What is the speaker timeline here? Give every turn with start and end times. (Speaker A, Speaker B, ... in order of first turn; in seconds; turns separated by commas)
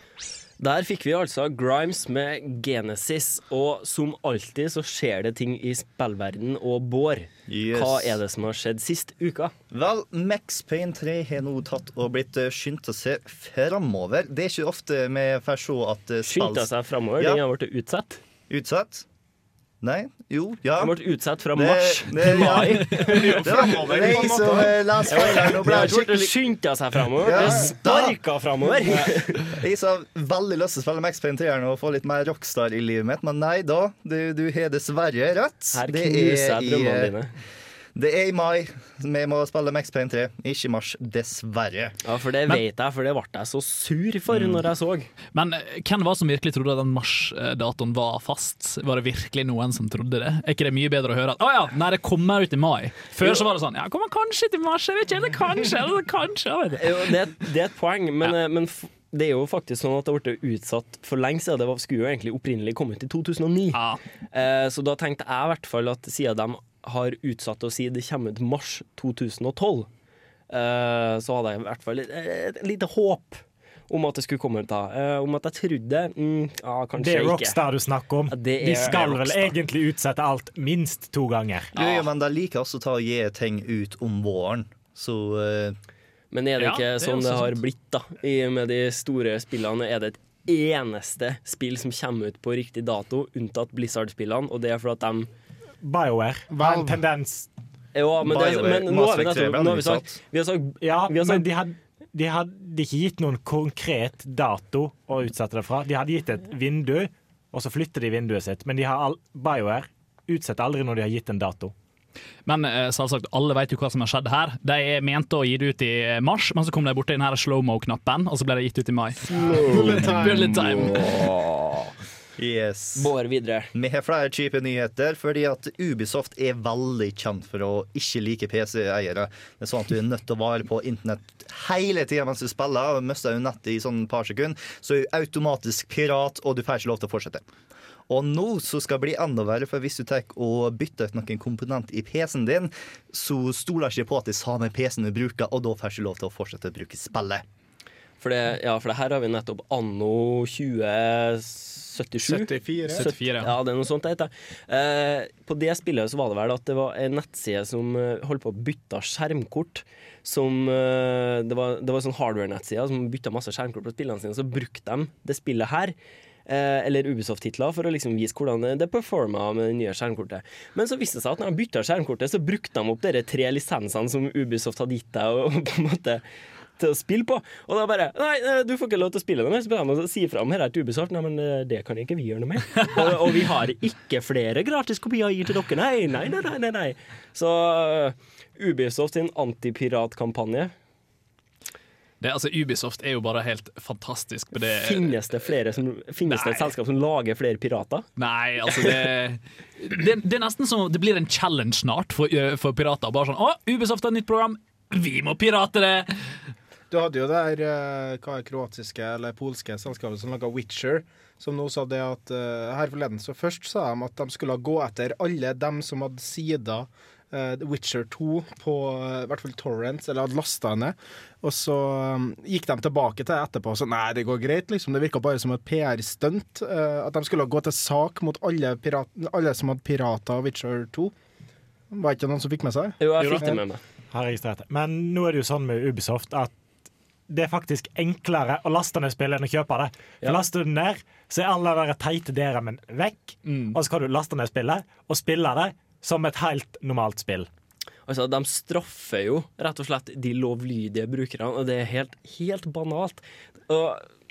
Speaker A: 0.6-9.5, Speaker B: 7.5-8.2, Speaker B: 9.7-17.4, Speaker A: 16.2-18.2, Speaker B: 18.5-19.0, Speaker B: 19.8-20.9, Speaker A: 20.8-23.3, Speaker B: 21.5-26.3, Speaker C: 22.9-25.1, Speaker A: 25.1-29.4, Speaker B: 27.2-28.2, Speaker C: 27.4-27.7, Speaker B: 29.0-37.1, Speaker A: 35.7-37.3, Speaker B: 37.9-42.0, Speaker A: 42.0-45.1, Speaker D: 45.3-57.1, Speaker A: 56.8-63.8, Speaker D: 63.7-64.0, Speaker A: 64.3-69.9, Speaker A: 70.5-77.6, Speaker E: 77.0-81.7, Speaker A: 78.3-79.6, Speaker B: 81.7-85.8, Speaker A: 86.3-95.3, Speaker D: 86.6-87.6, Speaker E: 95.8-97.5, Speaker C: 96.5-97.0, Speaker A: 97.9-101.5, Speaker B: 98.2-100.2, Speaker E: 100.8-111.7, Speaker D: 112.5-121.1, Speaker A: 119.3-120.1, Speaker C: 119.3-121.2, Speaker B: 122.4-123.1, Speaker A: 123.0-123.7, Speaker B: 123.7-137.4, Speaker B: 138.1-147.4, Speaker A: 148.2-165.9, Speaker C: 152.2-153.1, Speaker D: 152.9-153.5, Speaker A: 166.5-176.2, Speaker A: 176.8-190.7, Speaker D: 192.2-195.2, Speaker A: 194.6-198.1, Speaker D: 196.3-196.7, Speaker D: 198.2-206.2, Speaker C: 206.9-231.1, Speaker C: 231.9-233.6, Speaker A: 233.0-233.8, Speaker E: 234.1-236.6, Speaker E: 237.3-247.5, Speaker D: 243.4-243.8, Speaker A: 248.1-254.1